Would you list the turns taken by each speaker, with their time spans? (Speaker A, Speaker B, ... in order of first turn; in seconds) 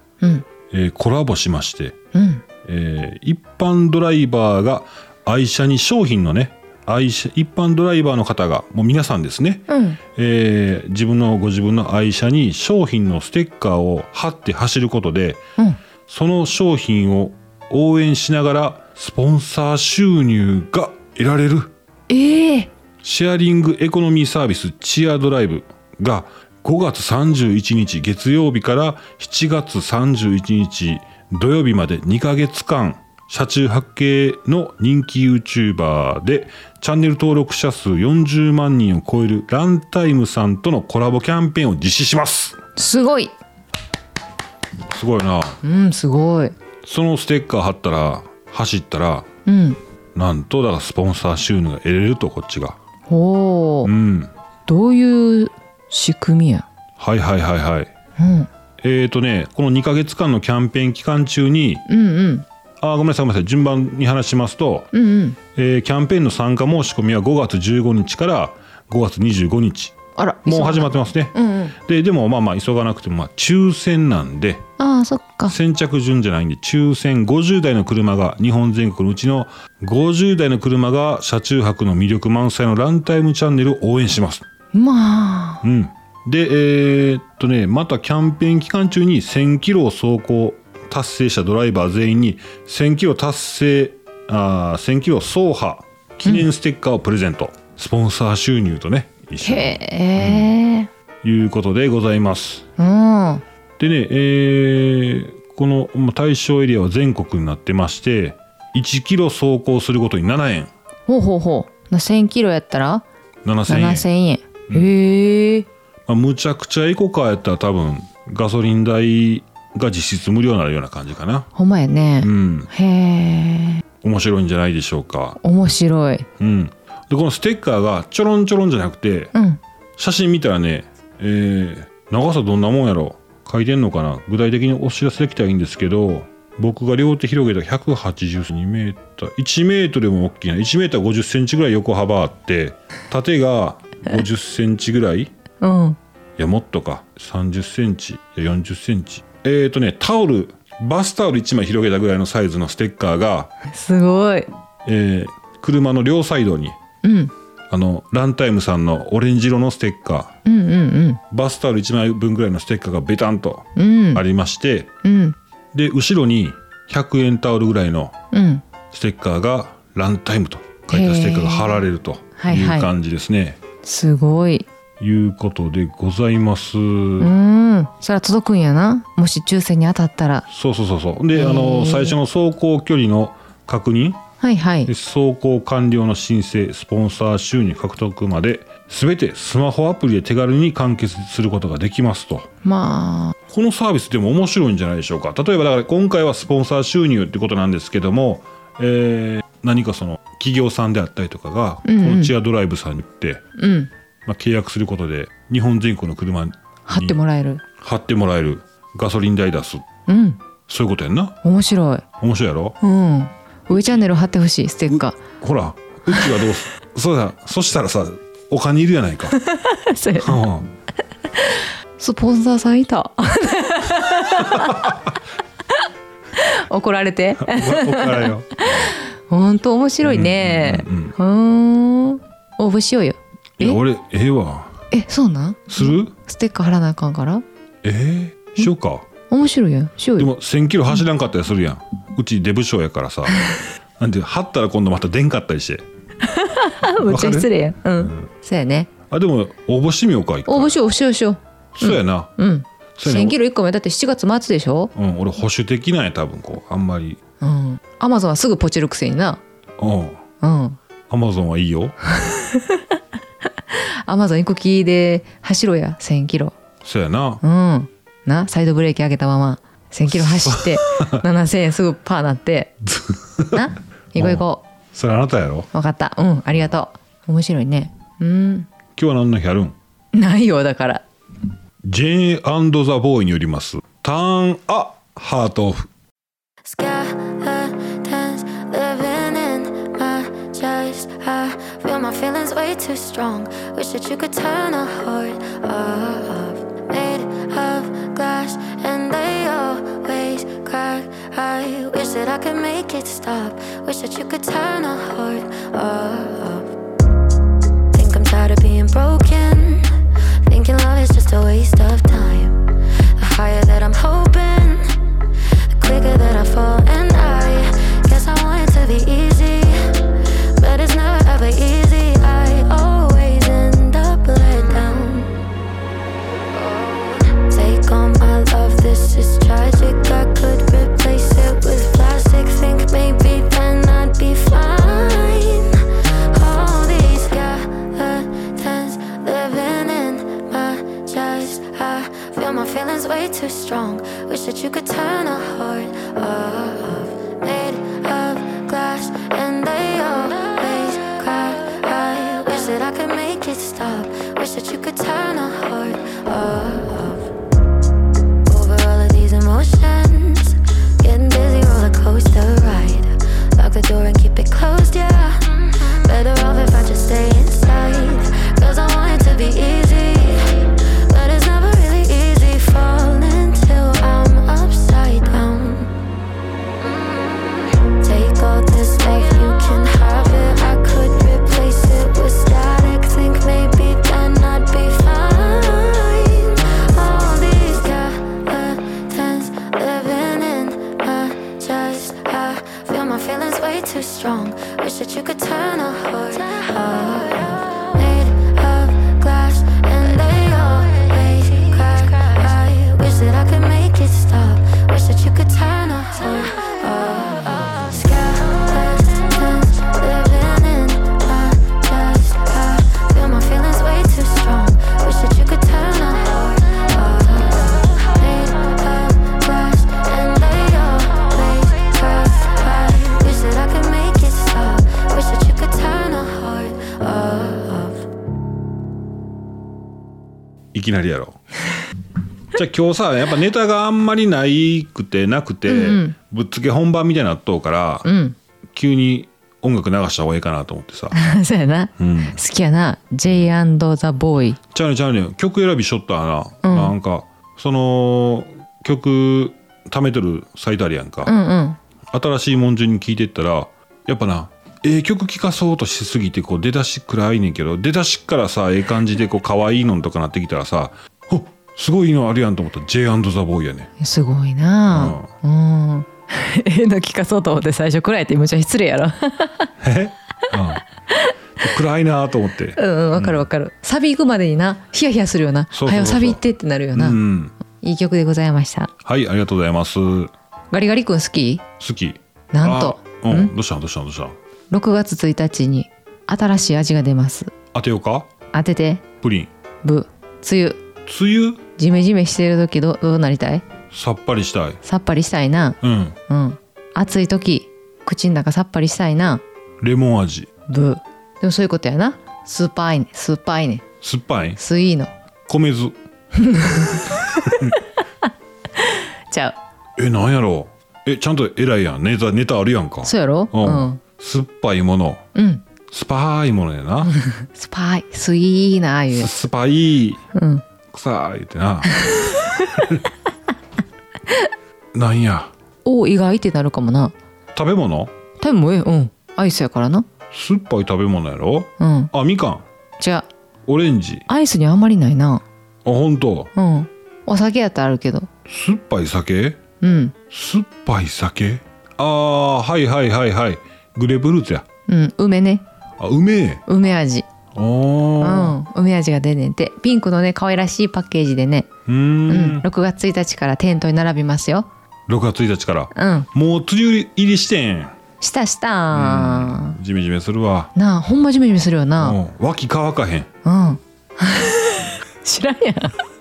Speaker A: 0.2-0.5, 2.1-2.4, 9.7-10.0, 22.1-22.7, 42.8-43.3, 45.6-46.5, 49.5-49.8, 53.1-53.9, 54.7-56.7, 58.2-58.5, 61.9-62.5, 64.9-65.4, 70.2-71.7, 74.8-75.5, 84.7-85.6, 99.4-100.9, 102.8-103.4, 111.1-113.0, 113.7-115.7, 121.5-123.8, 125.4-126.3, 129.3-129.6, 145.6-146.0, 153.7-154.5, 157.0-157.3, 160.4-161.2, 163.8-164.2, 165.0-165.4, 168.3-168.6, 170.9-171.8, 172.4-172.9, 173.8-174.7, 177.2-180.4, 181.3-182.2, 184.4-184.9, 192.6-193.4, 201.8-202.3, 203.6-203.9, 206.9-207.6, 210.1-210.4, 211.4-212.0, 212.8-215.2, 216.1-216.4, 219.3-220.4, 221.3-225.0, 226.3-233.8, 234.9-237.4, 239.3-240.3, 246.2-248.9, 250.5-254.9, 257.4-259.4, 260.4-260.8, 262.1-263.0, 263.7-266.5, 267.4-272.7, 273.5-274.6, 275.7-278.7, 280.1-281.0, 435.6-436.1, 438.0-438.4, 441.1-444.6, 446.6-446.9, 451.2-451.8, 464.0-469.7, 472.8-477.2, 477.8-478.9, 480.7-481.6, 482.5-483.5, 484.7-487.5, 488.5-489.1, 489.8-490.8, 491.8-493.6, 494.8-499.4, 500.7-503.8, 504.6-505.1, 506.3-507.8, 508.8-509.6, 513.0-514.0, 515.3-515.6, 517.2-519.3, 520.3-520.6, 522.0-522.6, 525.8-527.1, 528.4-530.1, 531.8-532.1, 533.0-533.3, 534.3-535.4, 536.5-538.3, 539.8-540.1, 544.9-545.6, 546.7-547.2, 548.2-551.7, 552.3-554.7, 555.9-556.3, 558.2-559.8, 560.7-562.2, 563.4-566.0
Speaker B: 0.7-1.9, 2.6-15.4, 16.1-21.7, 23.0-42.6, 44.9-45.6, 46.8-49.3, 50.1-52.8, 53.8-54.3, 57.0-57.9, 58.8-61.8, 62.8-64.9, 65.5-74.6, 75.5-84.4, 85.6-100.5, 101.2-102.6, 103.8-110.7, 113.4-114.1, 116.1-121.5, 122.2-122.7, 124.0-125.4, 126.4-129.3, 130.0-145.3, 146.4-153.5, 154.8-156.8, 157.7-160.3, 161.3-164.9, 165.7-168.1, 168.9-173.6, 175.0-177.3, 180.5-184.2, 184.8-192.5, 193.5-203.4, 204.2-207.2, 207.8-209.8, 210.7-211.4, 212.2-212.8, 214.9-219.4, 220.2-220.7, 224.4-225.1, 227.4-228.9, 230.0-231.2, 233.6-234.8, 235.7-236.1, 237.8-239.1, 240.2-243.4, 244.0-245.8, 247.0-248.3, 249.1-250.8, 251.8-252.3, 252.9-253.3, 254.9-257.2, 259.8-260.2, 261.1-262.0, 266.8-267.4, 270.1-271.2, 272.8-275.7, 278.9-279.8, 281.8-285.9, 430.7-431.4, 432.5-438.1, 438.7-441.2, 442.0-442.4, 444.7-451.3, 452.1-463.9, 464.9-465.3, 469.8-470.8, 471.6-473.4, 475.7-476.4, 476.9-477.5, 479.0-480.3, 481.8-484.4, 487.7-488.3, 489.2-489.5, 491.1-491.6, 493.9-494.8, 495.8-496.1, 499.8-500.5, 504.0-504.6, 505.5-505.9, 507.4-507.8, 510.0-515.2, 515.9-517.1, 519.1-520.2, 520.9-522.0, 522.7-523.0, 524.9-525.5, 527.5-528.1, 530.3-532.6, 533.7-534.3, 535.8-536.5, 538.5-539.6, 540.3-544.6, 546.0-546.6, 547.5-548.6, 551.9-552.6, 555.1-558.0, 558.9-560.7, 562.0-563.3
Speaker C: 286.6-306.7, 307.9-315.0, 315.7-325.3, 326.5-357.3, 358.4-375.9, 376.8-428.0